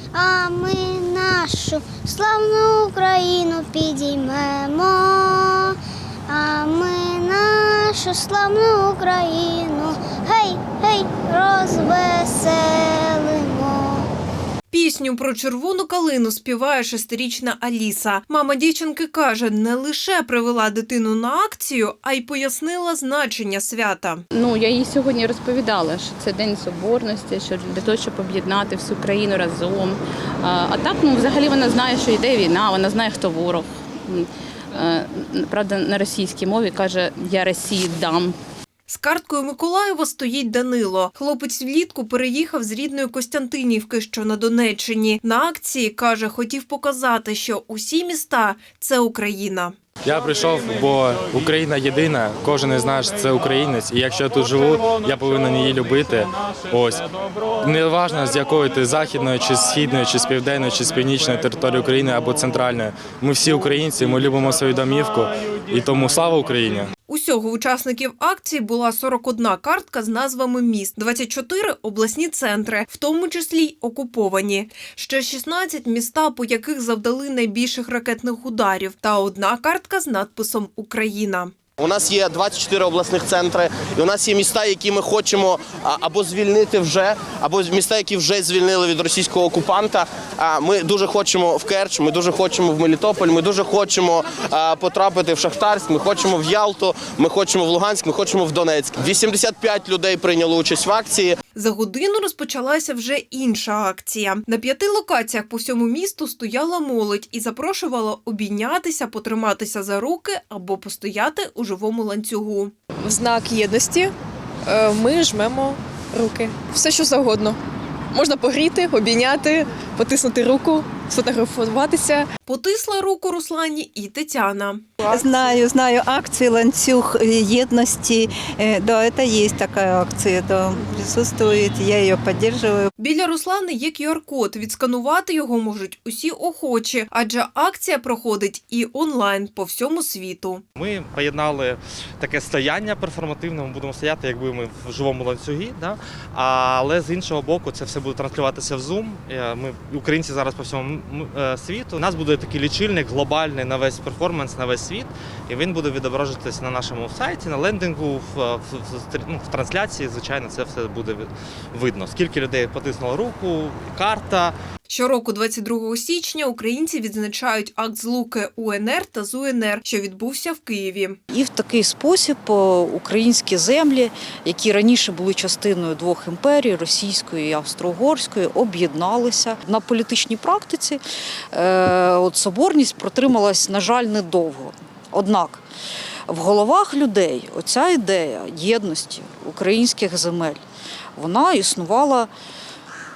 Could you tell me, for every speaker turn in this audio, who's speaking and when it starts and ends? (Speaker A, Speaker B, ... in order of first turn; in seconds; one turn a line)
Speaker A: 0.1-5.8
Speaker A: 6.3-14.1
Speaker B: 14.7-24.2
Speaker C: 24.3-38.4
Speaker B: 38.9-49.7
Speaker D: 50.1-57.0
Speaker D: 57.6-66.9
Speaker B: 67.1-81.5
Speaker E: 81.8-101.4
Speaker B: 101.5-112.7
Speaker F: 113.0-114.1
Speaker F: 114.7-117.6
Speaker F: 118.1-122.3
Speaker B: 122.5-124.9
Speaker G: 125.2-132.9
Speaker B: 133.0-140.6
Speaker H: 140.8-164.6
Speaker B: 164.9-171.2
Speaker I: 171.3-185.6
Speaker I: 186.3-190.6
Speaker I: 191.2-192.3